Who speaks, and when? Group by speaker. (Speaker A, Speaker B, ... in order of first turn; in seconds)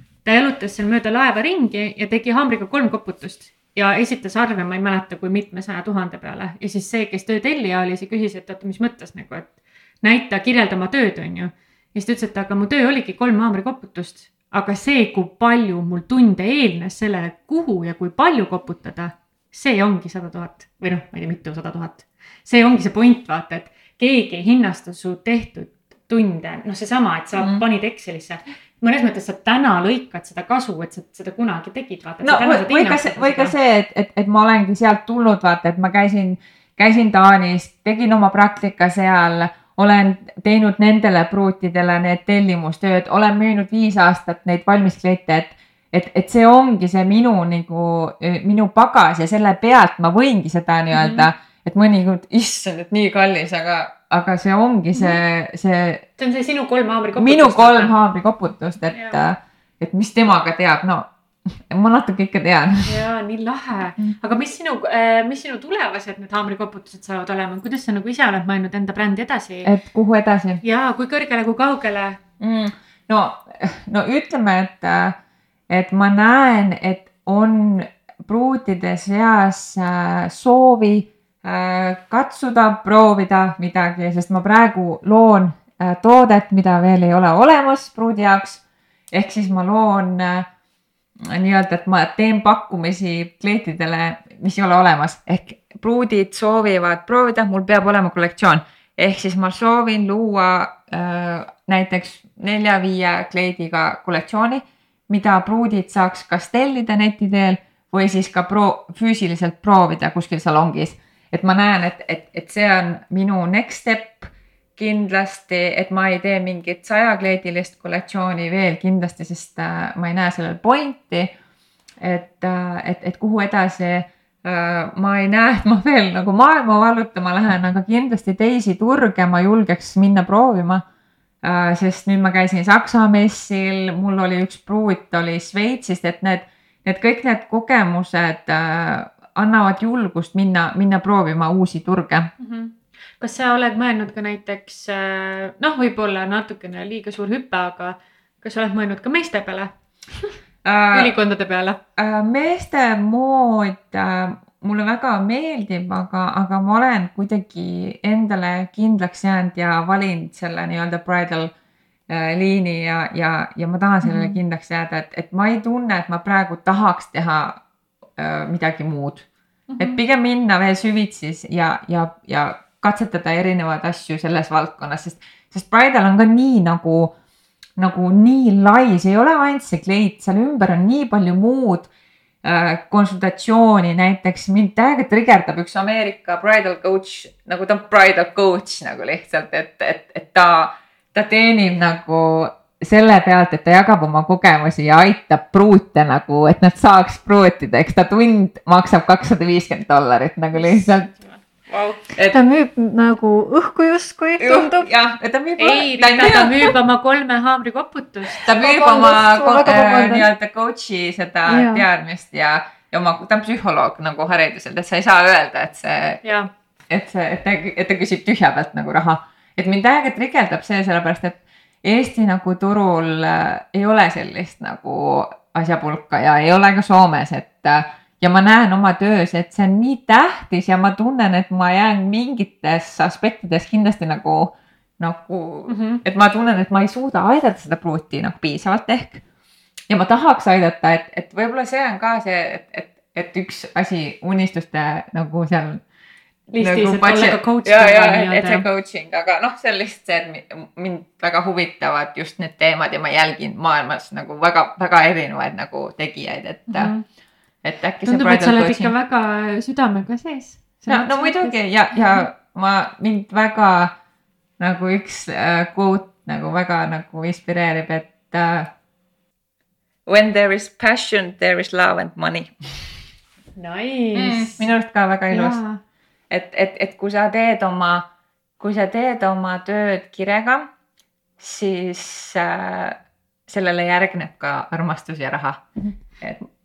Speaker A: 0.2-33.5, 50.9-51.3, 56.2-58.0, 58.9-59.2, 62.9-69.7, 70.6-72.2, 142.4-150.3, 150.9-151.8, 164.0-164.4, 169.7-170.0, 200.6-202.0, 205.6-208.5, 216.2-216.5, 235.7-236.0, 246.5-248.6, 256.7-257.0, 258.1-262.2, 273.6-274.7, 275.3-275.8
Speaker B: 27.4-27.6, 32.2-56.0, 57.2-63.0, 69.7-70.6, 72.4-75.2, 75.7-90.5, 91.2-121.3, 122.0-130.8, 131.4-142.3, 150.6-151.2, 152.0-161.5, 162.1-167.6, 168.2-169.3, 169.8-177.1, 177.8-181.9, 182.4-201.1, 204.4-206.7, 208.4-216.2, 216.9-239.2, 239.9-245.8, 246.6-256.9, 257.6-258.9, 260.9-263.9, 264.6-268.7, 270.1-272.5, 274.1-275.6, 276.3-278.1, 278.6-280.7, 281.4-285.7
Speaker C: 202.3-204.9, 208.6-210.3, 211.5-211.8